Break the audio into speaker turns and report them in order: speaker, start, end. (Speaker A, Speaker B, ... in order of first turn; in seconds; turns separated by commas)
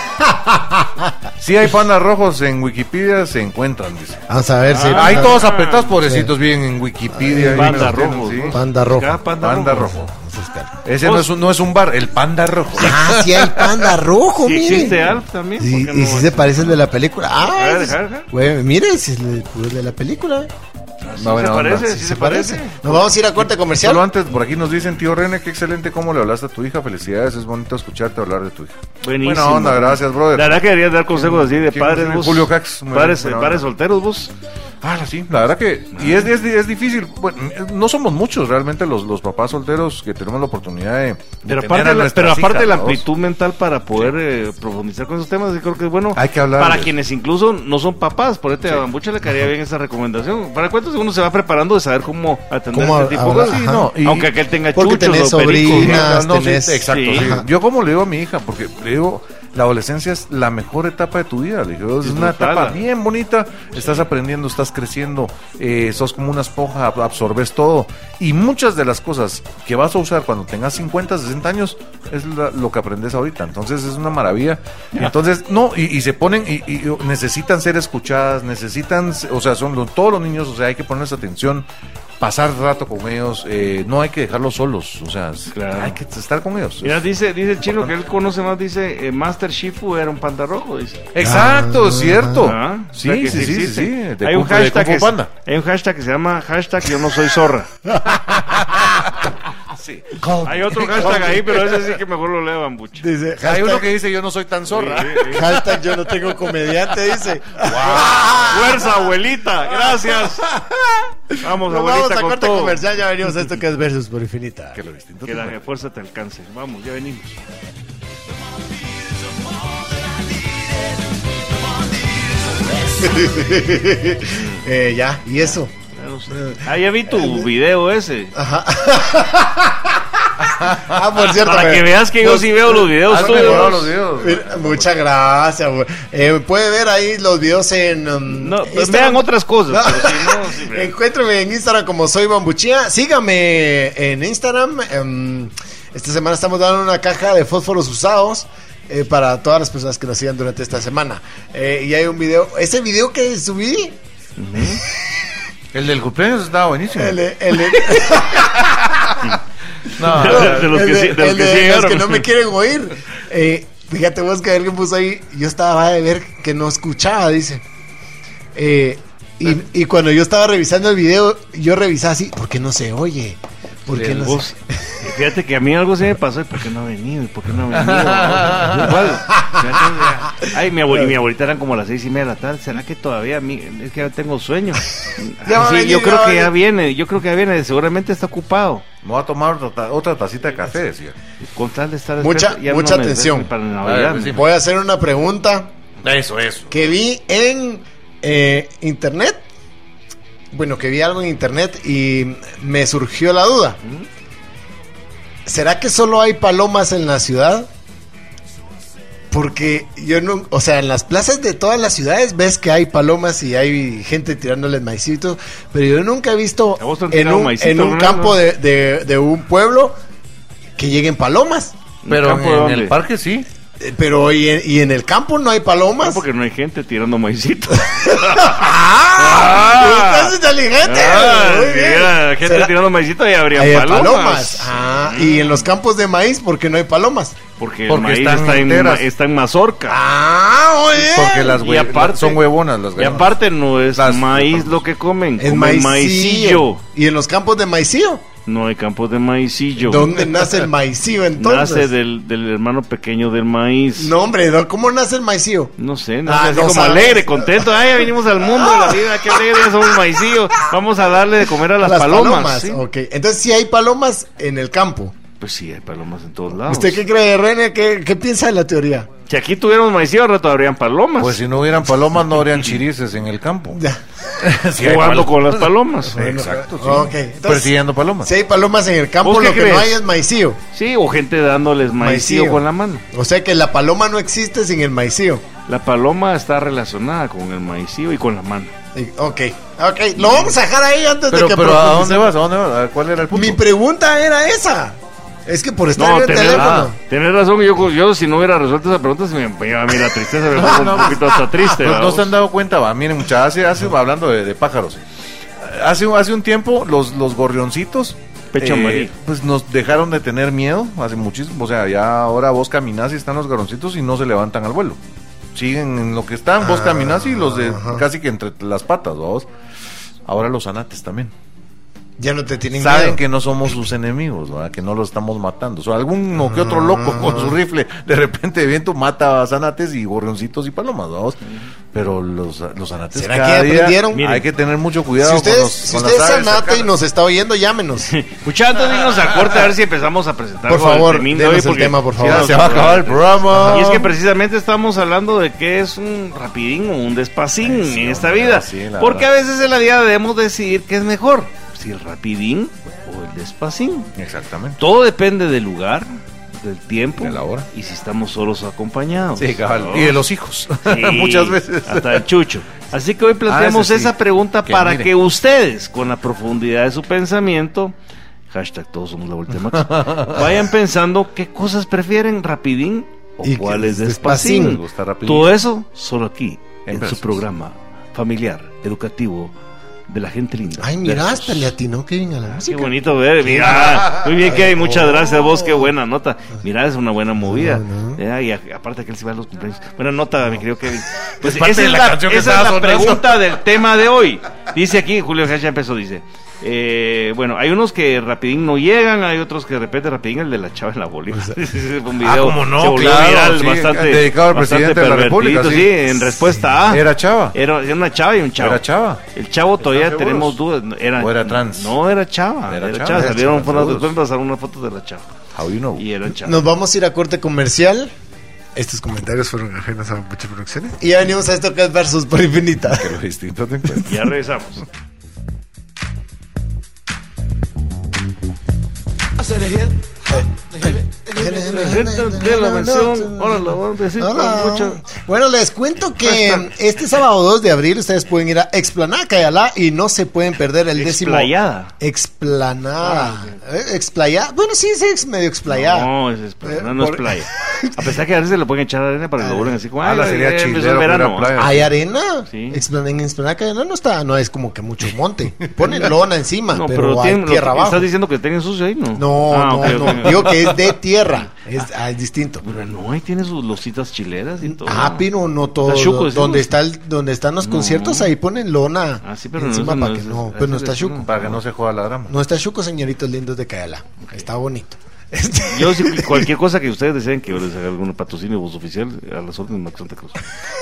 Speaker A: 0.2-1.1, Speaker B: 1.4-8.6, Speaker A: 4.3-5.4, Speaker C: 4.6-6.0, Speaker A: 6.0-6.3, Speaker A: 7.1-7.9, Speaker C: 7.5-10.0, Speaker A: 8.5-9.2, Speaker B: 9.4-10.1, Speaker A: 10.1-10.7, Speaker B: 10.8-14.0, Speaker C: 11.0-11.3, Speaker A: 12.8-15.0, Speaker C: 14.4-16.8, Speaker B: 14.7-15.1, Speaker A: 15.6-20.5, Speaker C: 17.4-18.3, Speaker C: 21.0-23.1, Speaker B: 21.1-22.0, Speaker A: 21.9-24.0, Speaker B: 23.4-33.6, Speaker C: 29.0-34.3, Speaker B: 34.8-43.0, Speaker C: 35.9-36.3, Speaker C: 41.5-56.1, Speaker B: 46.1-46.9, Speaker A: 52.7-53.9, Speaker B: 53.5-54.3, Speaker A: 54.7-57.4, Speaker B: 55.6-81.7, Speaker C: 56.9-57.3, Speaker C: 62.0-62.8, Speaker B: 82.2-87.0, Speaker C: 85.5-86.0, Speaker C: 86.8-91.1, Speaker B: 87.6-87.9, Speaker B: 91.1-95.3, Speaker A: 91.2-92.4, Speaker C: 92.4-97.7, Speaker A: 97.9-98.9, Speaker B: 98.6-98.9, Speaker B: 99.7-101.5, Speaker C: 100.4-103.0, Speaker A: 100.9-101.7, Speaker A: 103.0-103.9, Speaker B: 103.4-105.6, Speaker C: 104.7-105.7, Speaker A: 105.3-109.1, Speaker B: 107.5-108.8, Speaker C: 108.0-110.4, Speaker A: 109.9-114.8, Speaker C: 111.4-112.8, Speaker B: 114.7-115.6, Speaker C: 115.2-117.4, Speaker A: 122.8-125.7, Speaker C: 124.3-124.6, Speaker C: 125.9-128.3, Speaker A: 126.3-127.5, Speaker A: 128.3-130.3, Speaker B: 130.4-131.0, Speaker A: 130.8-154.0, Speaker C: 131.2-133.8, Speaker B: 133.1-134.9, Speaker C: 138.3-140.9, Speaker C: 154.4-154.8, Speaker B: 155.7-158.0, Speaker A: 156.9-159.1, Speaker B: 159.9-160.7, Speaker C: 160.0-162.3, Speaker A: 160.2-167.6, Speaker A: 168.5-174.5, Speaker B: 173.9-174.2, Speaker C: 173.9-188.8, Speaker B: 177.7-179.2, Speaker A: 179.3-181.1, Speaker A: 185.4-186.5, Speaker B: 189.0-191.2, Speaker C: 191.4-194.4, Speaker A: 192.2-193.5, Speaker B: 193.8-194.4, Speaker A: 194.3-195.7, Speaker B: 196.0-196.9, Speaker A: 196.7-199.4, Speaker A: 200.5-203.8, Speaker A: 205.4-207.7, Speaker A: 209.3-220.0, Speaker C: 216.8-218.4, Speaker A: 220.8-221.7, Speaker C: 222.0-222.9, Speaker B: 222.1-223.5, Speaker A: 223.8-226.2, Speaker C: 226.0-235.7, Speaker A: 228.0-232.7, Speaker A: 233.5-237.4, Speaker C: 237.6-240.0, Speaker B: 237.9-239.1, Speaker A: 239.9-241.6, Speaker B: 240.9-243.4, Speaker C: 241.6-246.8, Speaker B: 243.9-244.8, Speaker A: 245.4-248.2, Speaker C: 248.5-250.5, Speaker A: 249.8-251.9, Speaker C: 251.4-254.1, Speaker A: 254.0-255.7, Speaker C: 255.8-262.8, Speaker A: 256.2-257.6, Speaker A: 258.5-259.4, Speaker A: 261.8-265.1, Speaker C: 265.4-267.0, Speaker A: 266.6-269.1, Speaker C: 269.3-271.4, Speaker B: 271.2-273.8, Speaker A: 273.7-274.0, Speaker B: 274.4-278.3, Speaker C: 274.8-276.2, Speaker A: 276.1-280.6, Speaker C: 279.2-279.9, Speaker C: 280.7-283.0, Speaker A: 282.0-285.4, Speaker C: 285.7-288.7, Speaker A: 288.9-292.3, Speaker C: 290.2-290.5, Speaker B: 291.3-293.6, Speaker A: 293.3-296.9, Speaker C: 295.9-302.3, Speaker B: 296.4-296.9, Speaker B: 300.5-301.2, Speaker B: 301.8-305.0, Speaker B: 305.6-315.0, Speaker C: 308.5-309.1, Speaker B: 315.5-319.5, Speaker A: 316.6-318.0, Speaker B: 320.2-321.3, Speaker A: 322.2-323.2, Speaker B: 322.7-331.4, Speaker A: 326.4-327.5, Speaker B: 331.9-336.9, Speaker A: 333.1-334.3, Speaker C: 334.1-334.4, Speaker A: 335.2-338.1, Speaker C: 338.1-354.1, Speaker A: 340.7-342.7, Speaker B: 342.2-344.0, Speaker A: 343.5-344.1, Speaker B: 347.6-349.3, Speaker B: 354.2-354.8, Speaker C: 354.8-360.2, Speaker B: 357.2-357.7, Speaker B: 359.4-362.2, Speaker C: 360.8-367.9, Speaker B: 363.5-364.1, Speaker B: 364.6-365.1, Speaker C: 368.5-379.5, Speaker B: 369.7-370.6, Speaker A: 373.4-374.8, Speaker B: 374.6-375.5, Speaker B: 376.9-377.4, Speaker C: 380.1-381.7, Speaker A: 380.8-385.9, Speaker C: 382.5-408.8, Speaker B: 383.6-384.4, Speaker A: 387.4-388.2, Speaker B: 391.4-393.5, Speaker A: 401.3-401.6, Speaker B: 402.2-406.1, Speaker B: 406.9-407.6, Speaker B: 408.6-409.2, Speaker C: 409.3-415.3, Speaker B: 409.8-410.6, Speaker B: 411.2-411.9, Speaker B: 412.6-414.1, Speaker B: 415.5-416.0, Speaker C: 416.0-416.6, Speaker A: 416.4-418.1, Speaker A: 418.7-423.1, Speaker B: 422.9-424.1, Speaker C: 424.1-424.8, Speaker A: 430.3-446.1, Speaker C: 431.4-435.0, Speaker C: 436.2-436.6, Speaker C: 440.9-441.9, Speaker C: 443.0-443.5, Speaker C: 445.7-451.5, Speaker A: 446.6-448.1, Speaker A: 449.4-449.7, Speaker B: 450.0-451.9, Speaker A: 451.6-458.1, Speaker C: 452.5-452.8, Speaker C: 455.8-456.1, Speaker C: 456.7-460.7, Speaker A: 459.1-462.6, Speaker B: 460.0-460.3, Speaker C: 462.6-465.2, Speaker A: 464.7-471.3, Speaker C: 465.8-466.7, Speaker C: 467.6-468.3, Speaker C: 469.2-471.6, Speaker B: 471.2-472.4, Speaker A: 472.3-476.5, Speaker C: 475.7-480.4